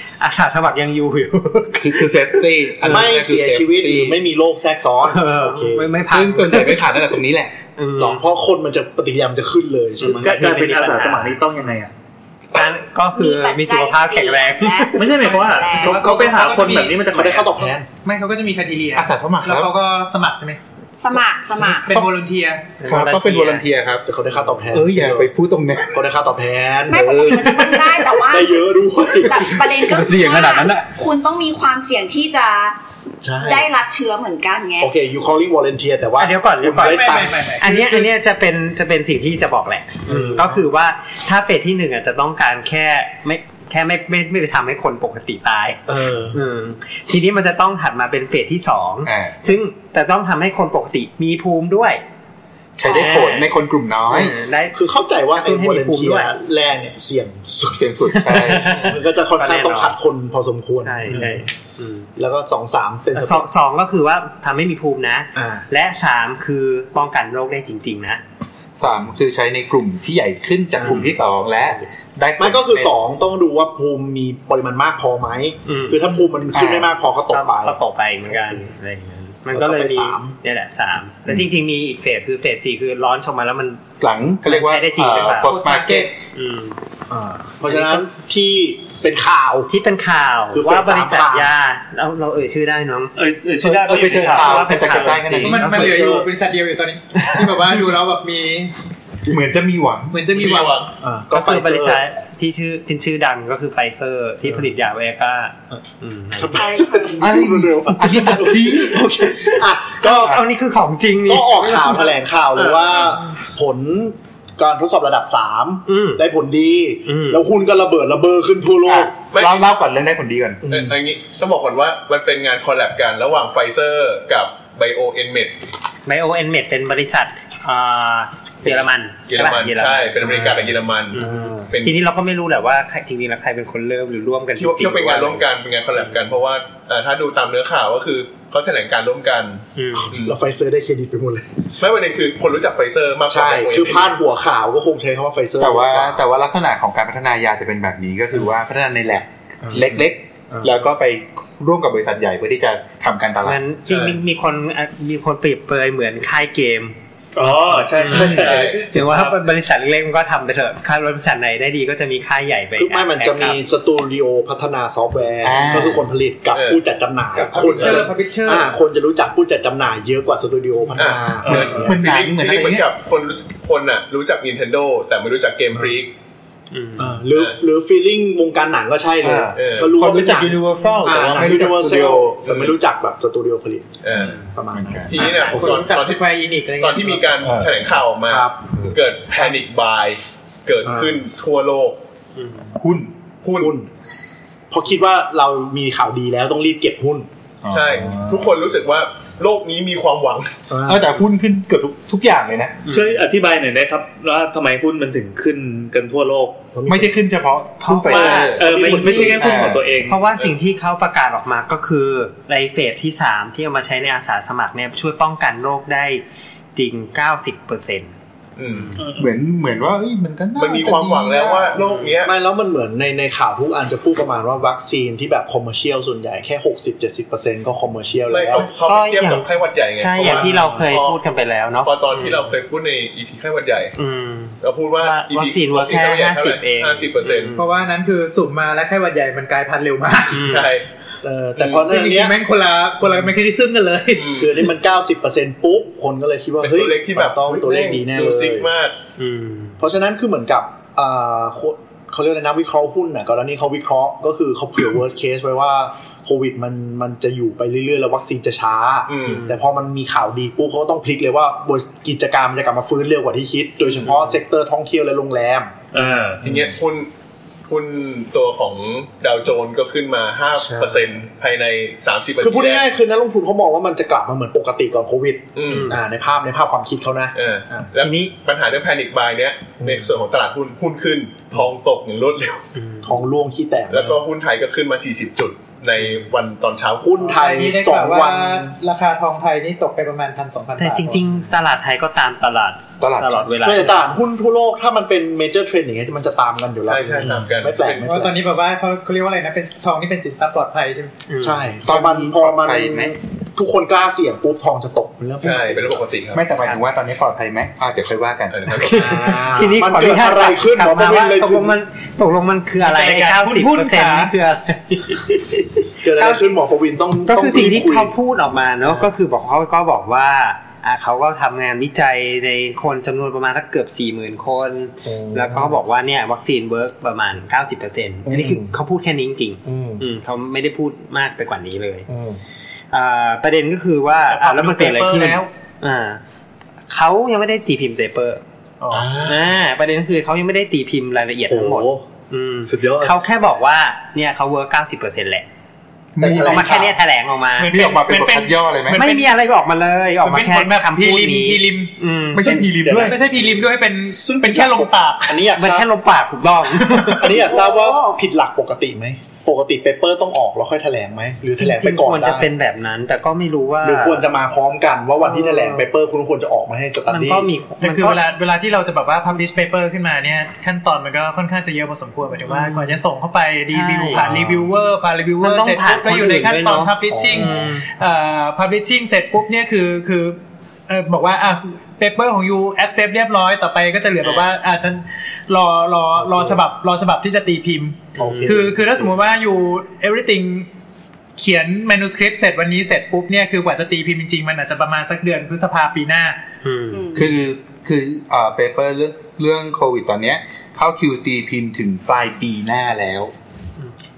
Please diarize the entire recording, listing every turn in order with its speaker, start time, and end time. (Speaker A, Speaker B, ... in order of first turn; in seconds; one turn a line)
Speaker A: 0.2-3.0
Speaker B: 1.8-4.2
Speaker C: 2.8-5.9
Speaker A: 5.0-7.0
Speaker B: 6.1-7.5
Speaker A: 7.8-8.2
Speaker C: 8.0-10.4
Speaker A: 10.0-11.8
Speaker D: 10.1-11.9
Speaker A: 12.5-15.1
Speaker E: 13.1-16.2
Speaker D: 14.9-17.5
Speaker F: 15.2-17.1
Speaker C: 17.0-17.9
Speaker F: 17.9-20.6
Speaker B: 18.9-19.7
Speaker E: 21.0-22.0
Speaker F: 21.8-22.7
Speaker A: 22.8-23.7
Speaker B: 22.9-24.1
Speaker C: 24.1-25.3
Speaker A: 24.3-24.7
Speaker B: 24.7-26.0
Speaker C: 25.9-27.3
Speaker E: 26.9-32.8
Speaker B: 26.9-28.0
Speaker C: 28.2-29.5
Speaker B: 29.3-30.9
Speaker C: 33.2-33.7
Speaker E: 33.4-34.9
Speaker C: 34.8-37.4
Speaker A: 36.2-52.0
Speaker F: 36.7-38.1
Speaker C: 40.1-40.6
Speaker C: 45.9-46.4
Speaker B: 49.0-49.4
Speaker B: 52.8-54.4
Speaker A: 52.9-53.5
Speaker A: 54.1-54.8
Speaker C: 54.7-61.5
Speaker A: 55.3-56.3
Speaker B: 57.8-58.8
Speaker A: 58.1-60.0
Speaker A: 60.8-62.1
Speaker C: 62.2-63.5
Speaker A: 63.1-68.2
Speaker C: 65.3-65.7
Speaker B: 68.8-72.9
Speaker C: 70.8-71.2
Speaker A: 70.8-71.1
Speaker C: 72.4-77.8
Speaker A: 75.7-76.1
Speaker B: 76.5-76.9
Speaker A: 77.3-83.9
Speaker C: 78.3-78.7
Speaker C: 79.5-80.4
Speaker B: 84.0-86.1
Speaker A: 84.4-85.6
Speaker F: 85.5-86.1
Speaker A: 86.2-86.8
Speaker C: 87.1-89.7
Speaker A: 87.7-88.1
Speaker A: 89.7-93.1
Speaker C: 90.5-91.5
Speaker D: 93.2-95.1
Speaker B: 93.6-95.9
Speaker A: 93.9-96.1
Speaker F: 95.4-98.7
Speaker C: 95.7-96.3
Speaker B: 99.3-100.2
Speaker F: 100.1-100.9
Speaker G: 100.3-100.9
Speaker C: 101.0-102.0
Speaker A: 101.3-106.9
Speaker C: 104.4-104.7
Speaker C: 106.3-110.4
Speaker E: 106.5-107.1
Speaker B: 107.2-109.5
Speaker A: 110.0-112.1
Speaker C: 111.3-119.1
Speaker A: 115.9-116.2
Speaker A: 117.1-117.4
Speaker B: 118.9-120.6
Speaker G: 119.3-119.7
Speaker C: 120.6-121.0
Speaker G: 120.7-125.6
Speaker A: 126.1-130.4
Speaker G: 129.3-132.0
Speaker C: 130.2-131.7
Speaker A: 131.1-135.5
Speaker G: 134.6-140.4
Speaker A: 139.8-140.2
Speaker C: 139.9-141.6
Speaker G: 141.8-144.2
Speaker C: 143.3-146.2
Speaker B: 145.6-153.6
Speaker C: 149.6-150.7
Speaker A: 153.4-157.0
Speaker G: 153.9-154.2
Speaker D: 157.3-159.3
Speaker C: 157.4-158.8
Speaker A: 158.0-163.6
Speaker G: 158.3-158.8
Speaker C: 162.8-172.0
Speaker B: 165.4-166.1
Speaker G: 166.5-166.8
Speaker F: 167.5-168.7
Speaker G: 171.0-176.1
Speaker D: 171.5-171.9
Speaker B: 171.5-172.9
Speaker A: 176.7-177.2
Speaker C: 177.0-185.8
Speaker B: 179.2-182.5
Speaker G: 179.5-179.9
Speaker G: 182.4-182.7
Speaker G: 184.0-184.4
Speaker B: 184.7-185.2
Speaker G: 185.1-192.0
Speaker F: 185.2-187.4
Speaker A: 185.2-185.6
Speaker B: 187.5-187.8
Speaker C: 188.3-188.7
Speaker B: 188.7-189.0
Speaker C: 190.8-191.2
Speaker A: 192.4-192.7
Speaker B: 192.8-193.1
Speaker G: 193.4-193.8
Speaker C: 193.6-193.9
Speaker C: 194.7-197.3
Speaker B: 197.6-198.5
Speaker G: 197.7-200.6
Speaker C: 200.7-201.1
Speaker B: 200.8-202.8
Speaker A: 202.9-203.2
Speaker D: 202.9-206.6
Speaker C: 206.8-207.2
Speaker B: 206.9-209.8
Speaker A: 207.8-209.5
Speaker D: 208.1-210.2
Speaker C: 208.6-209.6
Speaker A: 210.1-216.2
Speaker A: 216.8-218.1
Speaker G: 218.6-219.0
Speaker D: 219.0-219.2
Speaker B: 219.2-221.8
Speaker G: 220.6-222.3
Speaker A: 221.9-222.1
Speaker C: 222.2-228.7
Speaker G: 228.3-231.3
Speaker A: 228.5-232.4
Speaker C: 230.2-230.8
Speaker G: 231.8-233.9
Speaker A: 234.0-237.7
Speaker G: 234.6-237.6
Speaker F: 237.6-240.5
Speaker A: 240.3-240.8
Speaker G: 240.3-240.9
Speaker C: 241.2-242.4
Speaker F: 241.7-244.3
Speaker G: 244.1-244.6
Speaker C: 244.3-248.7
Speaker G: 246.6-249.0
Speaker A: 249.2-249.8
Speaker C: 249.8-265.9
Speaker G: 259.1-259.5
Speaker A: 259.3-259.6
Speaker D: 265.9-266.4
Speaker C: 266.4-266.7
Speaker G: 266.4-267.1
Speaker G: 267.7-272.9
Speaker C: 270.5-271.2
Speaker C: 272.4-277.9
Speaker G: 275.6-276.0
Speaker A: 275.7-276.0
Speaker G: 277.4-282.6
Speaker A: 278.0-278.3
Speaker C: 279.8-280.2
Speaker A: 282.7-283.2
Speaker C: 283.0-284.2
Speaker G: 283.9-287.1
Speaker C: 287.0-288.8
Speaker F: 287.2-291.3
Speaker A: 290.8-294.1
Speaker B: 293.0-293.6
Speaker C: 293.6-298.4
Speaker G: 296.9-298.1
Speaker F: 298.0-301.1
Speaker A: 301.3-301.8
Speaker C: 301.4-306.0
Speaker B: 301.9-303.1
Speaker G: 305.4-306.5
Speaker B: 306.3-308.8
Speaker G: 308.5-309.2
Speaker A: 308.8-316.5
Speaker C: 308.8-311.8
Speaker F: 312.8-314.3
Speaker C: 316.0-318.1
Speaker A: 317.3-332.1
Speaker C: 318.8-319.1
Speaker C: 325.1-325.8
Speaker C: 328.3-328.8
Speaker C: 329.7-330.0
Speaker C: 332.1-332.4
Speaker A: 332.9-336.2
Speaker F: 334.3-335.5
Speaker A: 336.9-338.4
Speaker F: 338.8-339.1
Speaker C: 338.9-339.3
Speaker A: 339.2-345.5
Speaker C: 341.4-342.0
Speaker C: 342.7-343.1
Speaker B: 346.2-346.9
Speaker C: 346.2-347.0
Speaker A: 346.2-347.7
Speaker F: 347.6-349.4
Speaker B: 347.7-349.0
Speaker A: 348.9-352.7
Speaker F: 350.2-351.9
Speaker B: 352.4-353.1
Speaker C: 352.4-355.9
Speaker F: 353.0-355.4
Speaker A: 355.5-357.5
Speaker C: 356.8-362.5
Speaker E: 357.3-358.2
Speaker A: 361.6-364.2
Speaker C: 363.8-367.5
Speaker A: 365.2-365.9
Speaker A: 367.1-368.2
Speaker F: 367.8-390.7
Speaker A: 372.5-373.0
Speaker A: 373.7-374.3
Speaker C: 374.2-374.7
Speaker A: 375.4-377.9
Speaker C: 377.1-377.7
Speaker C: 386.2-386.6
Speaker A: 388.2-388.7
Speaker C: 388.2-389.1
Speaker F: 391.4-396.4
Speaker A: 396.6-397.3
Speaker E: 396.9-397.3
Speaker B: 397.1-403.3